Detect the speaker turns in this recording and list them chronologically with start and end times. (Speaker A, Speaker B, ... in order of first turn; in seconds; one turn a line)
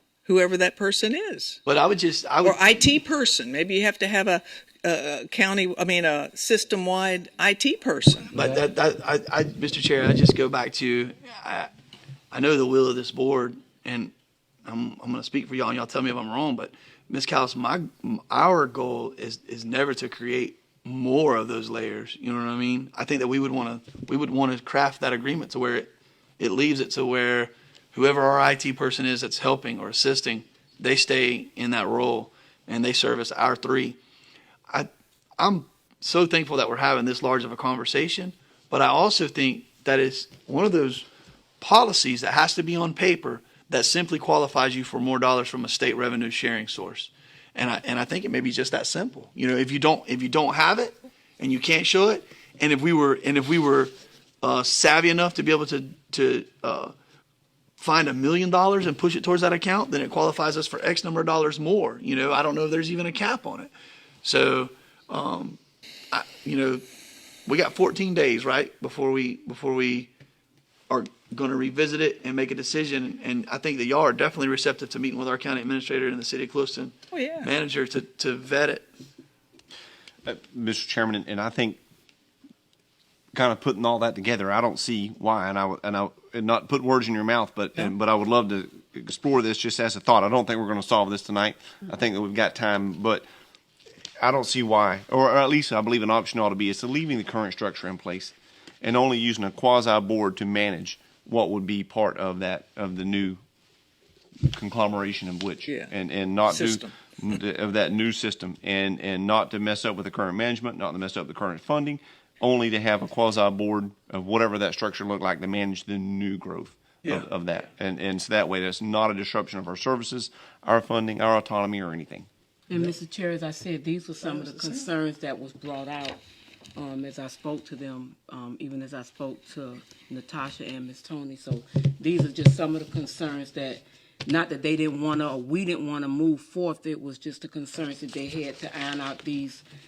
Speaker A: 0.2-1.6
Speaker B: 1.6-2.6
Speaker A: 2.4-8.4
Speaker B: 8.3-11.7
Speaker B: 12.3-14.1
Speaker B: 14.6-34.0
Speaker B: 34.7-41.0
Speaker B: 41.6-56.9
Speaker B: 57.8-63.7
Speaker B: 64.2-65.6
Speaker B: 66.1-66.8
Speaker B: 67.5-70.1
Speaker B: 70.9-78.8
Speaker A: 77.1-77.5
Speaker C: 80.2-81.8
Speaker C: 83.3-93.2
Speaker C: 94.2-103.4
Speaker C: 104.5-122.3
Speaker A: 105.7-105.9
Speaker A: 106.5-106.9
Speaker D: 122.7-126.2
Speaker B: 124.2-124.9
Speaker D: 126.8-139.6